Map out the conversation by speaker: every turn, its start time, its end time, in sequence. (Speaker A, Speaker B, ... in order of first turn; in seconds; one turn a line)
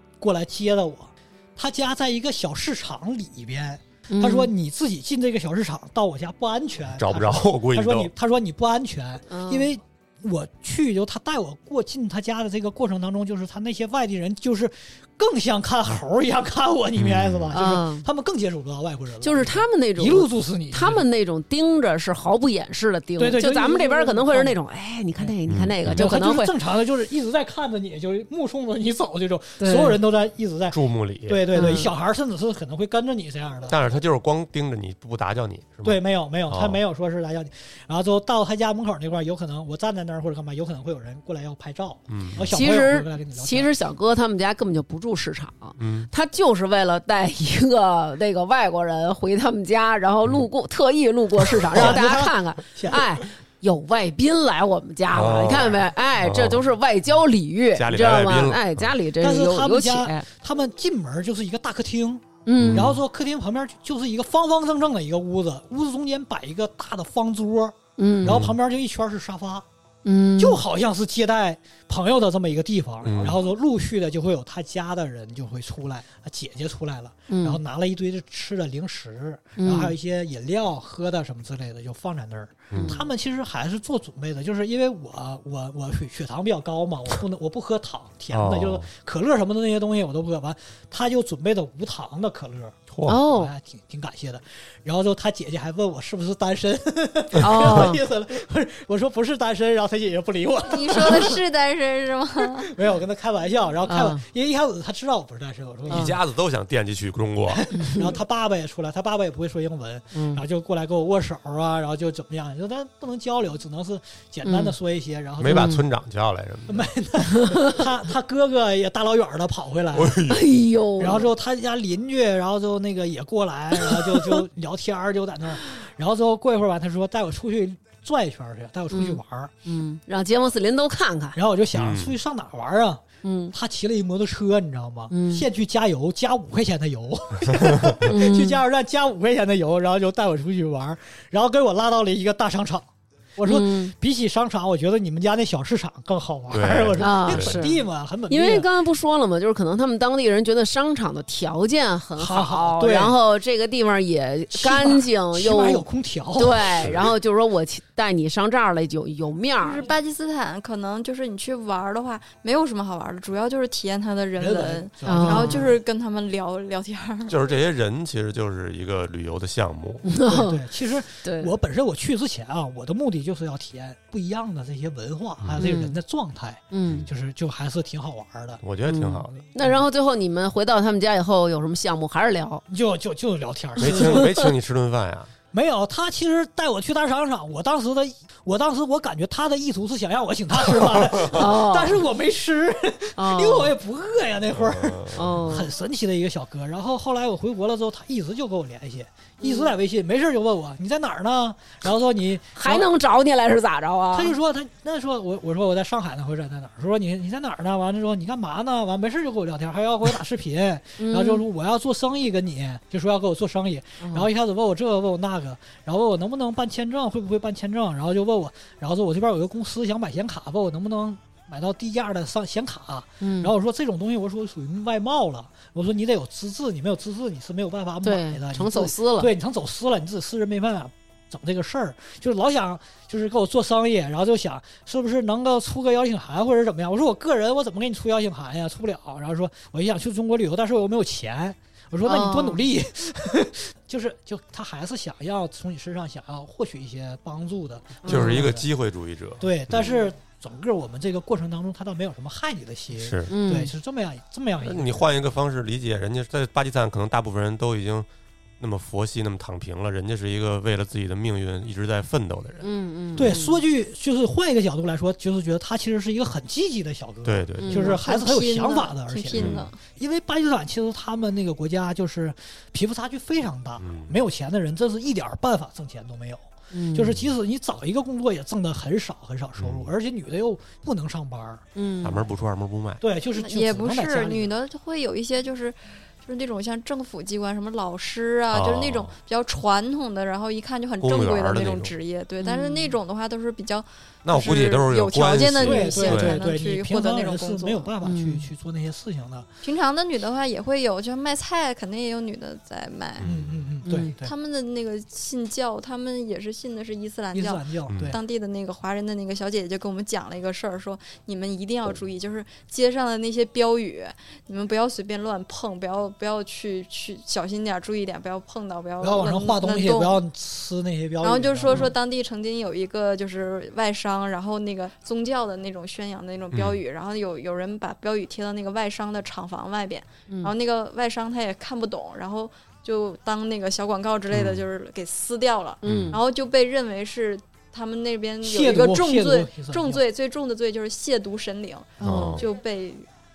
Speaker A: 0.2-21.1
Speaker B: 4.1-4.5
Speaker C: 6.9-8.1
Speaker B: 9.3-9.7
Speaker C: 17.0-17.5
Speaker B: 17.5-18.1
Speaker B: 19.2-26.6
Speaker A: 23.2-24.6
Speaker A: 25.2-33.9
Speaker C: 25.5-26.1
Speaker B: 29.6-30.0
Speaker C: 30.7-31.5
Speaker B: 31.5-31.9
Speaker C: 33.7-36.8
Speaker A: 35.8-43.7
Speaker C: 42.1-42.5
Speaker B: 42.5-60.3
Speaker C: 45.8-46.1
Speaker C: 51.7-52.0
Speaker A: 51.7-53.0
Speaker C: 55.1-56.7
Speaker C: 57.7-59.0
Speaker A: 59.2-69.7
Speaker B: 62.5-62.9
Speaker C: 62.6-63.0
Speaker B: 68.0-68.5
Speaker C: 68.2-68.6
Speaker B: 70.0-70.6
Speaker A: 70.4-101.4
Speaker C: 73.0-73.4
Speaker B: 77.3-77.6
Speaker B: 79.6-79.9
Speaker C: 82.7-83.0
Speaker B: 82.7-83.0
Speaker C: 88.3-88.9
Speaker C: 92.9-93.2
Speaker B: 93.1-93.5
Speaker C: 97.4-97.9
Speaker B: 97.4-98.0
Speaker D: 100.7-102.7
Speaker A: 102.4-106.2
Speaker B: 103.8-104.2
Speaker C: 105.9-107.7
Speaker B: 105.9-106.2
Speaker A: 107.5-115.8
Speaker B: 107.8-108.1
Speaker B: 110.1-110.4
Speaker B: 114.4-114.7
Speaker C: 115.4-116.9
Speaker B: 115.5-115.8
Speaker A: 116.7-120.2
Speaker B: 117.3-117.8
Speaker C: 119.9-120.5
Speaker B: 120.3-121.3
Speaker A: 121.0-129.5
Speaker B: 123.9-124.4
Speaker B: 128.9-131.4
Speaker A: 131.3-148.7
Speaker C: 131.7-132.2
Speaker B: 133.2-133.5
Speaker B: 135.1-135.4
Speaker C: 137.6-138.0
Speaker B: 138.0-138.6
Speaker B: 143.4-143.9
Speaker C: 146.5-147.6
Speaker B: 147.0-155.8
Speaker A: 152.2-153.2
Speaker A: 154.5-157.1
Speaker B: 156.4-159.8
Speaker C: 156.8-157.1
Speaker D: 159.6-167.5
Speaker A: 164.4-165.8
Speaker B: 165.1-165.7
Speaker C: 167.3-170.1
Speaker B: 170.1-170.7
Speaker A: 170.2-179.8
Speaker B: 171.2-171.6
Speaker C: 175.4-175.7
Speaker B: 175.6-176.0
Speaker B: 176.7-177.1
Speaker C: 178.6-179.3
Speaker B: 178.9-182.6
Speaker A: 182.7-184.4
Speaker C: 183.8-185.3
Speaker B: 183.8-184.5
Speaker A: 185.5-202.9
Speaker B: 191.3-192.1
Speaker B: 193.2-193.7
Speaker C: 194.5-195.3
Speaker B: 195.1-195.7
Speaker B: 199.4-199.7
Speaker B: 202.6-204.3
Speaker A: 204.1-248.7
Speaker B: 211.0-211.4
Speaker B: 214.0-214.3
Speaker B: 223.2-223.5
Speaker B: 228.0-229.3
Speaker B: 242.1-242.7
Speaker B: 248.0-248.5
Speaker C: 248.1-250.1
Speaker A: 249.4-255.1
Speaker C: 253.0-253.3
Speaker B: 253.3-253.7
Speaker C: 254.6-258.1
Speaker C: 258.6-262.7
Speaker B: 262.6-263.6
Speaker A: 263.2-281.6
Speaker C: 267.2-267.9
Speaker B: 267.6-268.0
Speaker D: 268.0-269.8
Speaker C: 269.3-269.6
Speaker C: 273.8-274.2
Speaker B: 276.7-277.1
Speaker C: 277.0-277.3
Speaker C: 279.6-279.9
Speaker B: 281.8-282.3
Speaker C: 282.0-283.0
Speaker A: 283.0-284.5
Speaker D: 283.3-297.9
Speaker C: 288.5-289.1
Speaker C: 291.0-291.9
Speaker B: 292.4-293.0
Speaker C: 294.2-296.4
Speaker A: 295.6-299.5
Speaker B: 298.0-298.5
Speaker D: 299.6-303.3
Speaker C: 303.2-303.7
Speaker A: 303.2-304.3
Speaker B: 303.9-304.1
Speaker D: 304.2-320.2
Speaker A: 307.3-308.2
Speaker C: 307.9-308.2
Speaker A: 319.0-321.9
Speaker D: 321.2-343.1
Speaker C: 326.5-326.8
Speaker C: 334.3-334.7
Speaker B: 335.8-336.2
Speaker C: 335.9-336.2
Speaker A: 338.4-340.0
Speaker B: 342.0-342.4
Speaker C: 342.0-342.5